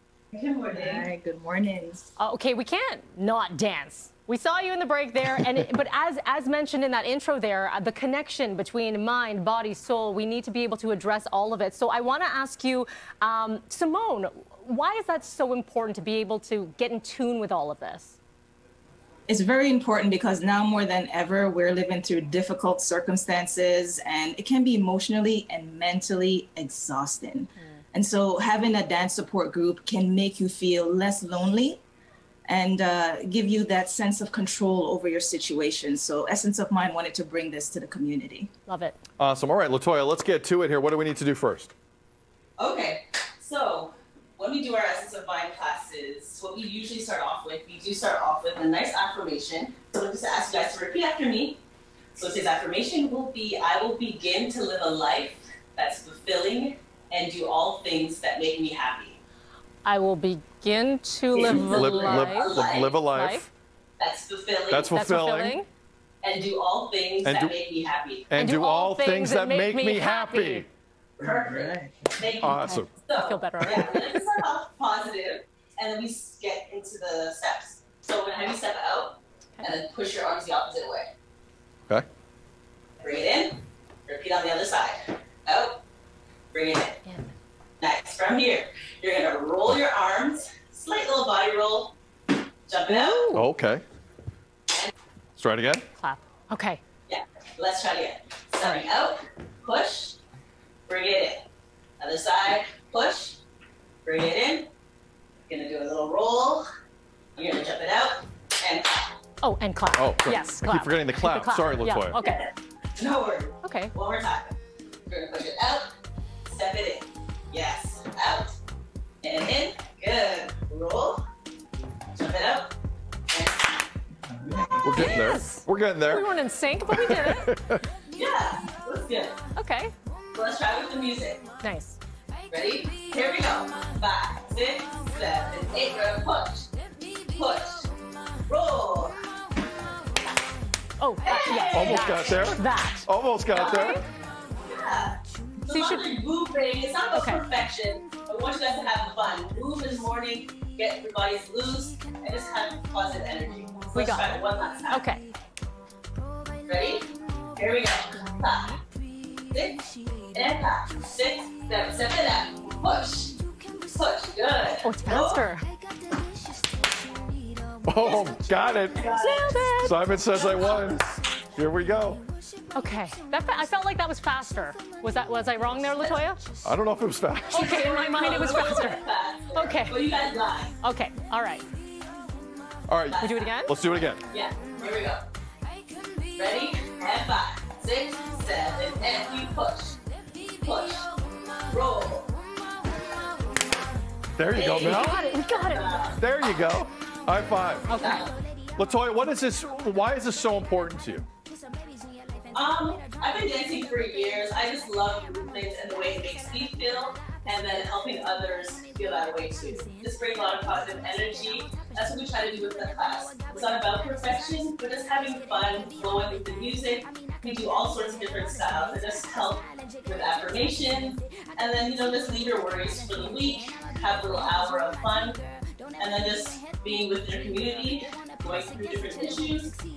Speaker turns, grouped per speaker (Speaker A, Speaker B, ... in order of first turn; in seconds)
Speaker A: 0.3-1.1, 42.6-51.6, 52.1-59.2, 61.3-63.0, 64.0-64.9, 66.2-68.3, 71.2-81.1, 83.0-85.8, 86.5-87.0, 87.8-91.9, 92.7-93.3, 97.1-100.2, 100.9-101.4, 102.0-103.4, 104.0-104.7, 105.5-106.6, 107.3-109.1, 112.2-114.5, 115.1-115.9, 116.5-118.6, 119.2-121.2, 122.1-122.7, 123.3-123.7, 128.1-129.4, 130.3-131.4, 132.5-136.7, 137.3-137.9, 138.5-139.1, 141.2-142.4, 143.5-143.9, 144.7-155.0, 156.7-158.8, 159.5-159.8, 160.3-163.4, 163.9-165.4, 168.0-169.6, 177.5-180.7, 183.1-183.5, 184.3-185.2, 186.3-190.0, 190.6-191.1, 191.7-192.3, 194.5-196.2, 198.0-198.3, 202.5-225.4, 226.0-229.8
Speaker B: 0.7-2.1, 19.3-31.8, 32.5-38.5, 71.2-72.1
Speaker C: 2.2-18.2, 38.7-39.0, 59.8-62.5, 63.1-63.5, 64.9-65.7, 68.3-70.7, 72.4-74.2, 87.0-87.3, 92.9-93.5, 96.0-96.8, 109.4-112.5, 113.6-113.9, 124.9-127.5, 129.6-129.9, 131.6-132.0, 141.0-143.1, 143.6-144.0, 145.7-146.0, 147.1-147.4, 153.9-155.2, 164.8-165.7, 169.2-170.0, 172.7-176.4, 177.5-179.0, 179.5-180.0, 180.8-181.6, 183.2-183.7, 194.8-195.9, 197.9-198.2
Speaker D: 39.2-41.7, 61.5-63.5, 64.7-65.6, 67.2-67.5, 68.3-70.7, 72.4-72.9, 93.3-93.8, 95.4-95.8, 110.0-112.2, 124.8-126.3, 126.9-127.8, 141.7-144.0, 167.8-169.1, 169.8-172.2, 176.6-177.8, 182.9-184.2, 194.3-195.2, 196.2-197.9, 198.8-201.3